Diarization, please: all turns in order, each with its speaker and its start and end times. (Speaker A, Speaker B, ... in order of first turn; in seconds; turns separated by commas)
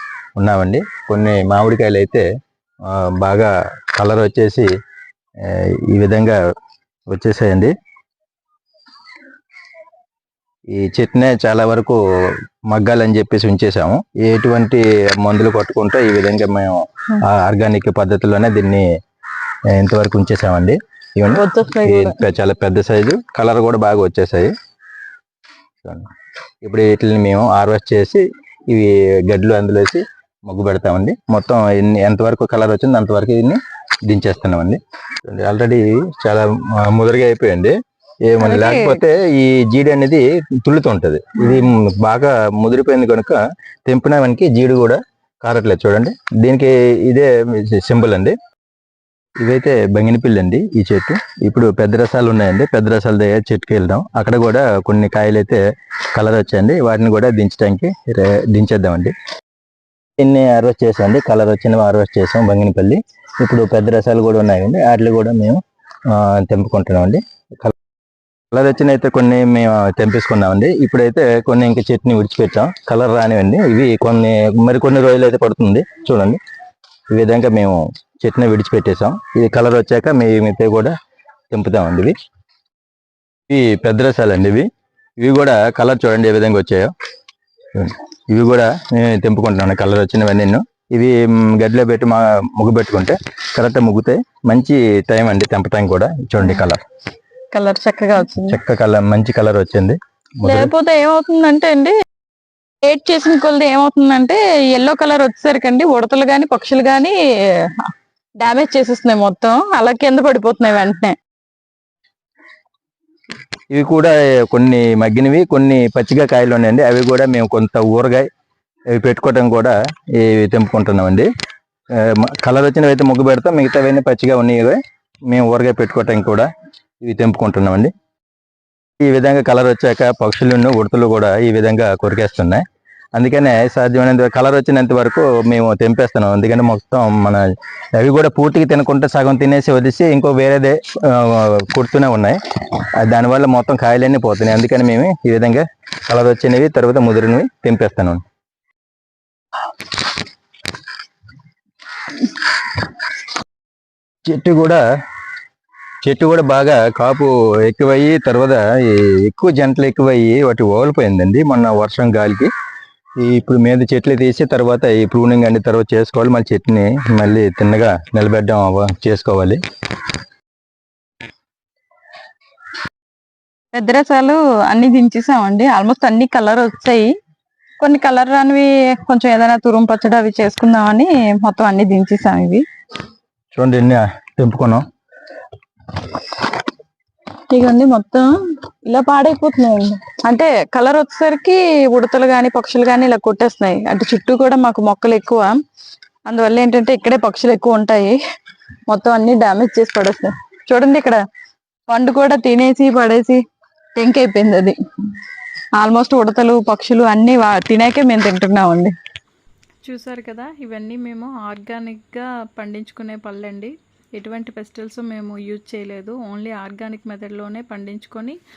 Speaker A: 0.4-2.2, Speaker A: 2.8-4.7, Speaker A: 5.4-6.4, Speaker A: 7.1-7.7, Speaker A: 10.7-12.0, Speaker A: 12.7-18.8, Speaker A: 19.7-24.5, Speaker B: 21.3-22.2, Speaker A: 26.6-37.7, Speaker A: 38.3-48.3, Speaker B: 38.4-39.0, Speaker A: 49.4-55.6, Speaker A: 56.1-59.1, Speaker A: 60.2-67.7, Speaker A: 68.5-76.4, Speaker A: 77.1-80.9, Speaker A: 81.5-82.1, Speaker A: 83.5-84.6, Speaker A: 85.2-86.9, Speaker A: 87.7-96.8, Speaker B: 97.5-98.6, Speaker A: 98.3-100.7, Speaker B: 100.4-101.9, Speaker B: 102.8-107.1, Speaker B: 108.4-111.1, Speaker A: 113.7-118.2, Speaker A: 118.9-121.3, Speaker A: 121.9-126.5, Speaker A: 127.0-127.9, Speaker A: 129.0-137.4, Speaker A: 137.9-142.4, Speaker A: 142.9-148.2, Speaker A: 154.2-154.8, Speaker A: 156.0-162.5, Speaker A: 163.2-169.6, Speaker B: 173.7-177.1, Speaker B: 177.8-182.6, Speaker A: 183.5-184.8, Speaker B: 187.5-188.3, Speaker B: 188.8-195.6, Speaker B: 196.2-198.2, Speaker B: 198.9-201.2, Speaker B: 201.9-203.4, Speaker B: 203.9-204.7, Speaker B: 205.8-208.9, Speaker C: 209.8-218.4